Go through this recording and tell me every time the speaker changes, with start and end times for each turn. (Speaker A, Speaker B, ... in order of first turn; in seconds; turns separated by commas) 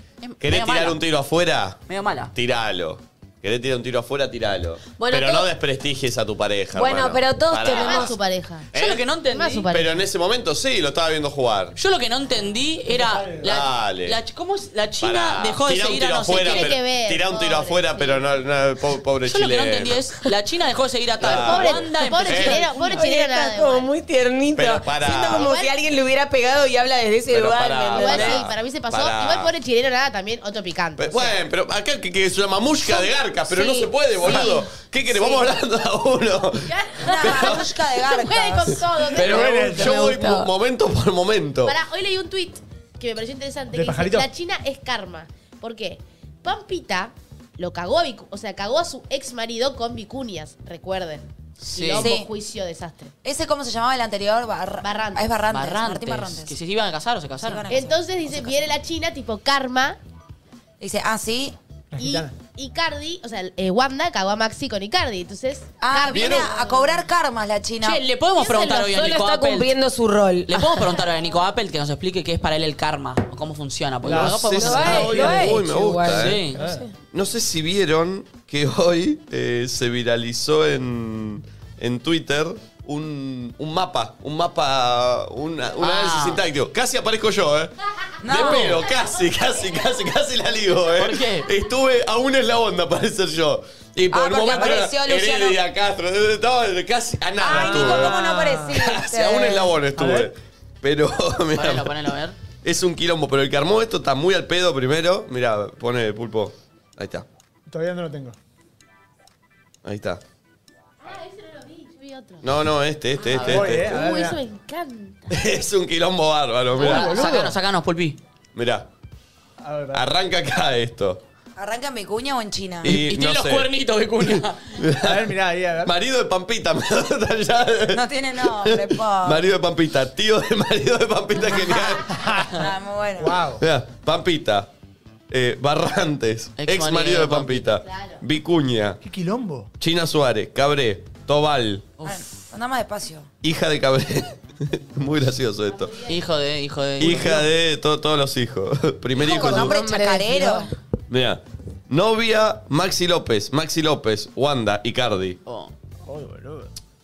Speaker A: 0.2-1.0, Speaker B: 0.4-1.8, Speaker A: 1.9-2.3, Speaker B: 2.3-8.1, Speaker C: 5.0-5.5, Speaker C: 6.7-8.1, Speaker D: 7.6-8.7, Speaker B: 8.7-9.0, Speaker A: 8.7-9.7, Speaker D: 9.3-10.0, Speaker B: 9.7-11.7, Speaker A: 11.8-16.7, Speaker E: 12.9-13.6, Speaker B: 13.4-14.2, Speaker B: 15.0-20.0, Speaker D: 16.3-18.2, Speaker A: 19.2-22.7, Speaker B: 21.2-22.6, Speaker D: 21.2-23.9, Speaker C: 22.6-28.5, Speaker B: 24.5-25.5, Speaker D: 25.2-25.7, Speaker B: 27.3-29.5, Speaker D: 27.9-31.4, Speaker B: 31.0-37.6, Speaker C: 33.5-34.5, Speaker D: 34.2-34.5, Speaker D: 36.6-39.9, Speaker F: 37.0-38.9, Speaker B: 39.0-41.7, Speaker E: 39.2-40.1, Speaker C: 39.7-40.5, Speaker D: 41.6-53.1, Speaker E: 43.7-44.3, Speaker A: 51.6-52.1, Speaker F: 52.0-52.3, Speaker F: 53.2-56.5, Speaker D: 54.8-55.3, Speaker A: 55.5-57.7, Speaker F: 57.4-58.7, Speaker D: 57.7-60.0, Speaker F: 60.8-61.5, Speaker E: 61.9-62.3, Speaker D: 62.0-67.0, Speaker F: 65.8-68.0, Speaker B: 66.1-66.5, Speaker A: 67.8-69.7, Speaker C: 68.4-70.9, Speaker A: 70.5-75.4, Speaker E: 74.0-75.5, Speaker B: 74.1-76.5, Speaker C: 74.6-76.9, Speaker A: 76.1-76.6, Speaker E: 76.5-76.8, Speaker B: 77.1-87.7, Speaker A: 85.8-86.4, Speaker F: 88.2-88.8, Speaker B: 88.2-101.9, Speaker A: 91.0-91.5, Speaker F: 94.1-95.6, Speaker F: 97.4-99.8, Speaker E: 97.4-98.7, Speaker E: 100.0-100.3, Speaker A: 101.5-102.4, Speaker B: 102.6-107.2, Speaker E: 107.7-108.3, Speaker B: 109.8-110.2, Speaker D: 111.0-112.5, Speaker B: 112.4-114.0, Speaker A: 113.3-113.6, Speaker E: 113.4-114.4, Speaker D: 113.4-115.4, Speaker B: 115.3-117.3, Speaker E: 116.8-117.5, Speaker A: 116.8-118.2, Speaker B: 118.5-118.9, Speaker E: 119.6-120.0, Speaker B: 119.9-121.2, Speaker F: 121.6-122.9, Speaker A: 122.8-124.6, Speaker B: 122.8-128.0, Speaker E: 125.0-125.9, Speaker F: 127.9-129.5, Speaker B: 128.6-132.2, Speaker F: 131.8-133.4, Speaker E: 132.1-132.6, Speaker E: 133.2-133.6, Speaker B: 133.6-134.7, Speaker B: 135.3-139.0, Speaker A: 136.6-137.7, Speaker D: 137.8-138.2, Speaker E: 139.0-139.7, Speaker B: 139.8-141.9, Speaker F: 142.0-143.3, Speaker B: 143.4-146.0, Speaker D: 145.7-146.2, Speaker A: 146.1-147.4, Speaker B: 147.0-149.8, Speaker E: 147.1-147.4, Speaker C: 149.2-150.7, Speaker F: 149.2-150.7, Speaker B: 151.1-155.4, Speaker A: 155.4-155.7, Speaker E: 156.1-156.7